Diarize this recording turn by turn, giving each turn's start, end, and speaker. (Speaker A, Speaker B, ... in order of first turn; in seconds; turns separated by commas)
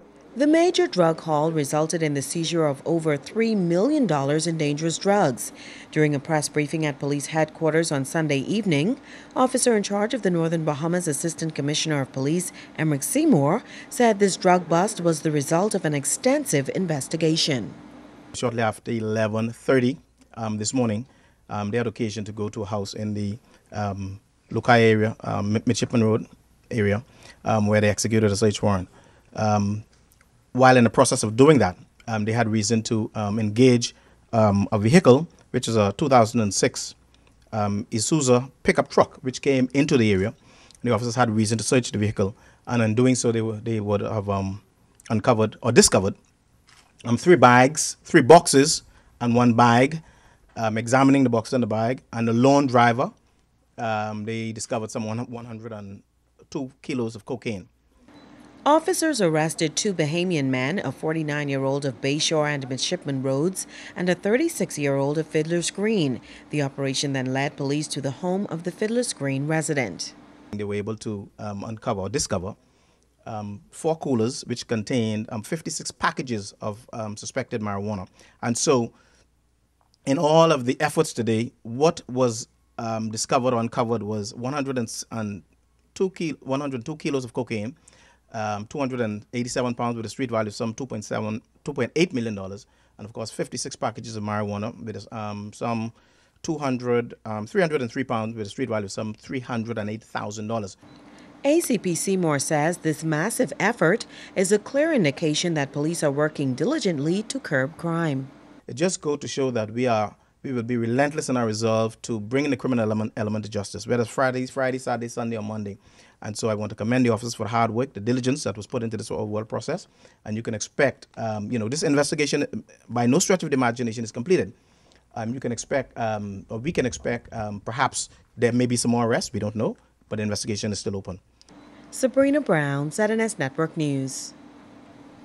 Speaker A: 0.3-17.8, Speaker B: 18.3-29.8, Speaker B: 30.5-36.9, Speaker B: 37.5-46.1, Speaker B: 47.0-50.0, Speaker B: 50.5-53.1, Speaker B: 53.8-57.7, Speaker A: 58.6-70.1, Speaker B: 70.5-72.5, Speaker B: 73.2-78.9, Speaker B: 80.0-85.4, Speaker B: 85.9-87.8, Speaker B: 88.3-100.7, Speaker A: 101.4-108.3, Speaker B: 108.7-124.5, Speaker B: 125.1-131.2, Speaker A: 131.9-134.3